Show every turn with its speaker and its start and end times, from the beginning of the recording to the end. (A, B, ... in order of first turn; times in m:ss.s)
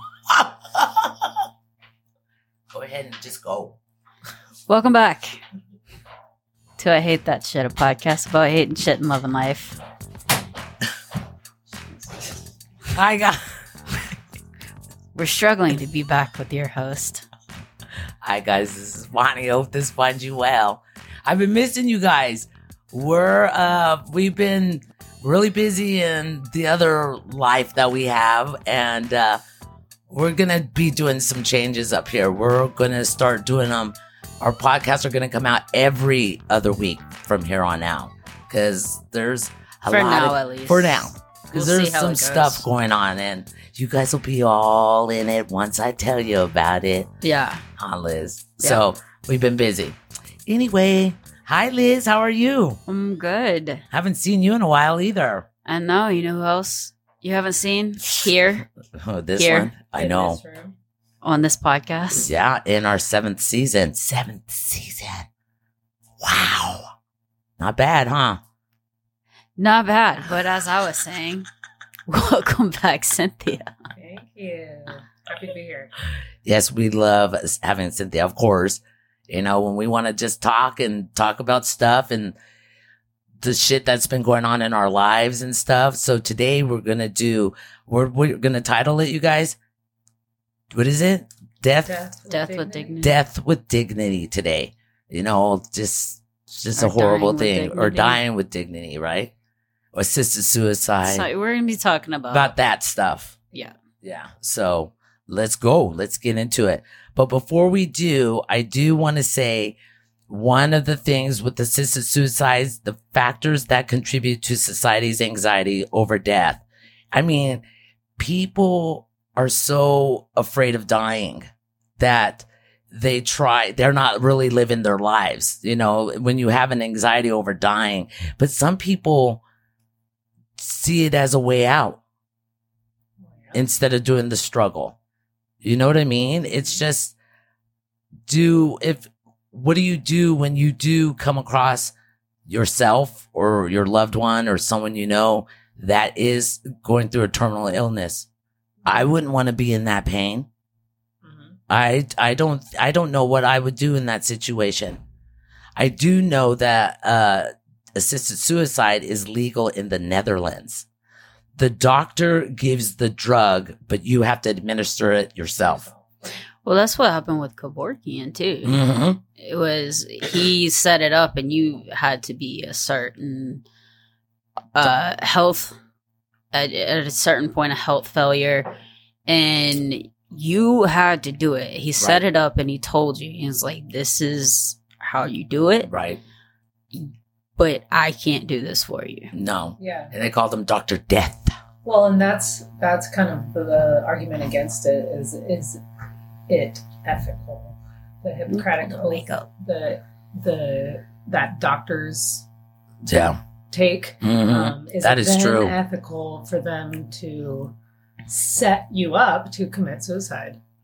0:00.3-0:01.4 A
0:02.7-0:03.8 A
0:04.7-0:05.4 B
0:06.8-0:09.8 B
0:12.9-0:13.4 A
0:15.2-0:17.2 B
0:18.2-0:29.4 A
0:30.1-0:47.1 A
0:39.9-0:42.7 B
0:47.2-0:47.6 B
0:47.8-0:52.8 A
0:52.9-0:53.8 B
0:53.9-0:55.5 A
0:55.7-0:58.7 B
0:59.0-1:00.4 A
0:59.4-0:59.7 B
0:59.9-1:00.8 C
1:01.2-1:02.3 B
1:02.2-1:05.3 A
1:06.2-1:06.9 A
1:07.6-1:08.4 A
1:09.6-1:11.5 B
1:12.1-1:13.7 B
1:14.0-1:15.9 C
1:16.4-1:22.4 A
1:23.4-1:29.6 A
1:30.7-1:32.0 A
1:31.8-1:33.0 C
1:32.3-1:33.2 B
1:33.0-1:39.3 A
1:36.8-1:38.2 B
1:39.9-1:41.3 A
1:41.0-1:42.5 B
1:42.3-1:43.4 A
1:44.0-1:49.8 A
1:50.3-1:57.6 A
1:58.2-2:09.4 A
2:10.6-2:12.0 A
2:13.5-2:15.0 A
2:15.6-2:17.2 A
2:16.5-2:16.8 C
2:18.3-2:21.9 A
2:22.5-2:28.3 A
2:28.9-2:30.5 A
2:31.2-2:31.6 C
2:31.7-2:35.0 A
2:35.8-2:40.9 A
2:41.6-2:45.9 A
2:45.6-2:46.0 C
2:46.6-2:53.6 B
2:48.6-2:49.2 A
2:54.8-2:55.8 B
2:56.5-2:58.7 B
2:59.3-3:05.9 B
3:02.0-3:02.2 A
3:05.9-3:06.2 A
3:06.9-3:09.3 B
3:09.3-3:11.5 A
3:09.8-3:10.1 C
3:11.8-3:15.8 C
3:16.5-3:22.5 C
3:18.5-3:19.5 B
3:23.0-3:23.4 A
3:23.7-3:27.8 C
3:24.2-3:25.8 A
3:28.3-3:30.6 C